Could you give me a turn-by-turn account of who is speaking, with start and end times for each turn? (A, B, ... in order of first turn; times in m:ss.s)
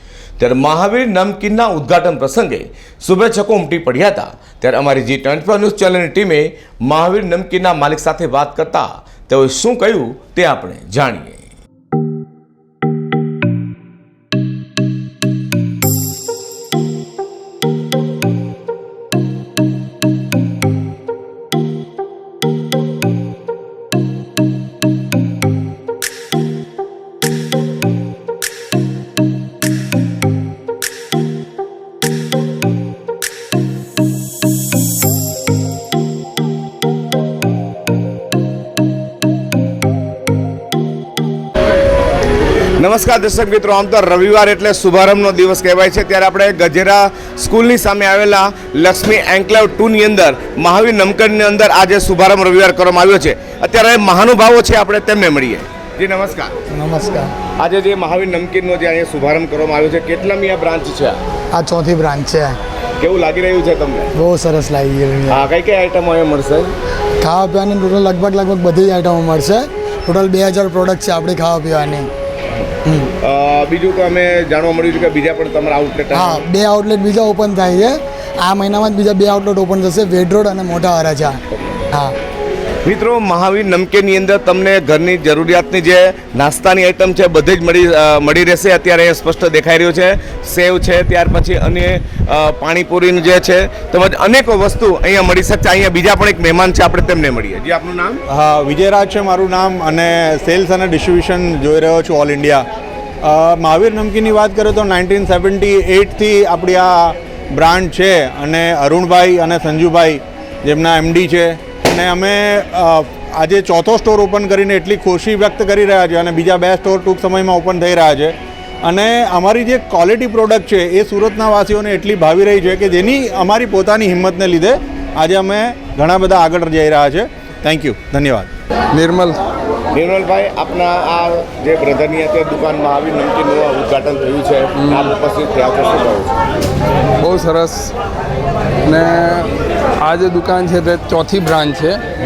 0:00.4-0:11.4 A
0:42.8-0:56.5 A
0:56.7-0:57.3 B
0:57.6-1:01.2 A
1:01.5-1:02.6 B
1:03.0-1:04.1 A
1:04.2-1:05.4 B
1:05.3-1:06.7 A
1:07.2-1:12.1 B
1:13.2-1:16.5 A
1:16.1-1:21.4 B
1:22.8-1:38.2 A
1:38.3-1:42.6 C
1:43.2-2:08.5 C
2:08.9-2:09.4 D
2:09.9-2:16.3 A
2:14.8-2:15.1 D
2:17.2-2:17.9 D
2:18.9-2:19.5 D
2:20.0-2:22.0 D